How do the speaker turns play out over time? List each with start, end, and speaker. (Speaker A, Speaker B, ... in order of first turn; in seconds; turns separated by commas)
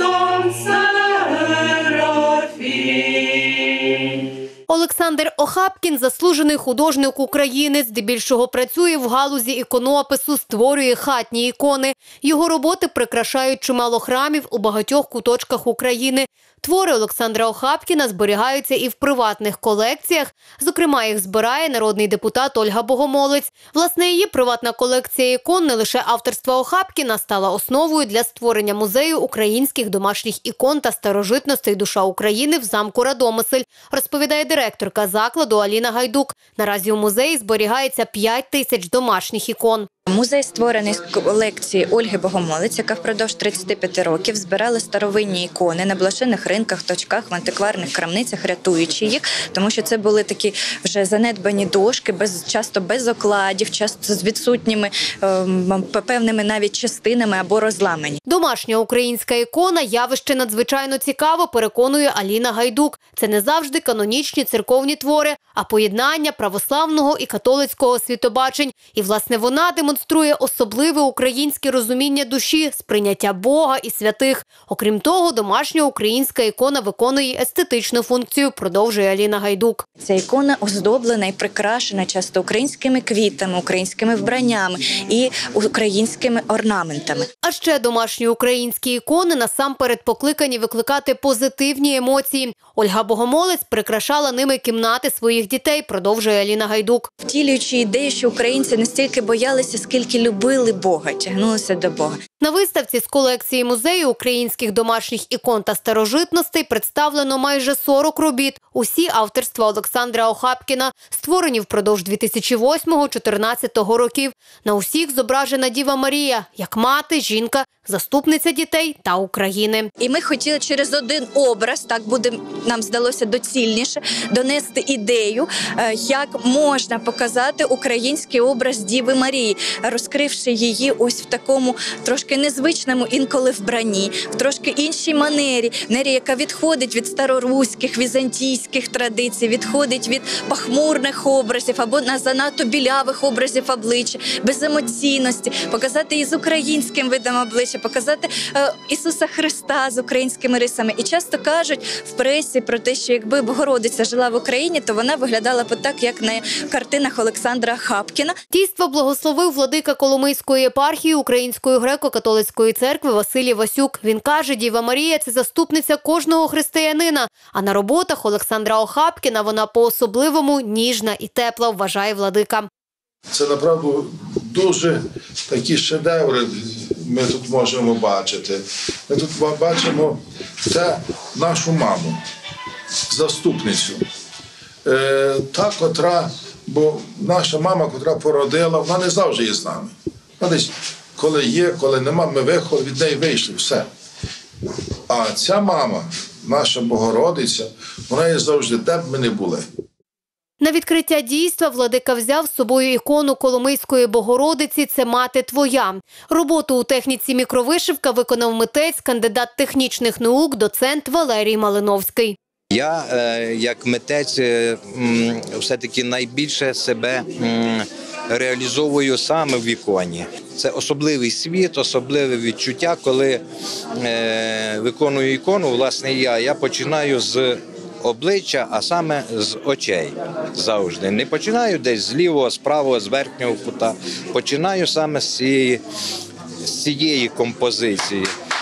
Speaker A: 4.7-39.9, Speaker B: 40.1-58.2, Speaker A: 58.3-79.8, Speaker B: 80.0-87.3, Speaker A: 87.4-97.1, Speaker B: 97.3-102.2, Speaker A: 102.4-119.9, Speaker B: 120.0-158.3, Speaker A: 158.5-172.7, Speaker C: 173.3-182.2, Speaker C: 183.1-184.0, Speaker C: 184.8-193.9, Speaker C: 195.1-199.7, Speaker A: 200.6-212.4, Speaker D: 212.7-223.4, Speaker D: 224.0-235.8, Speaker D: 236.6-238.3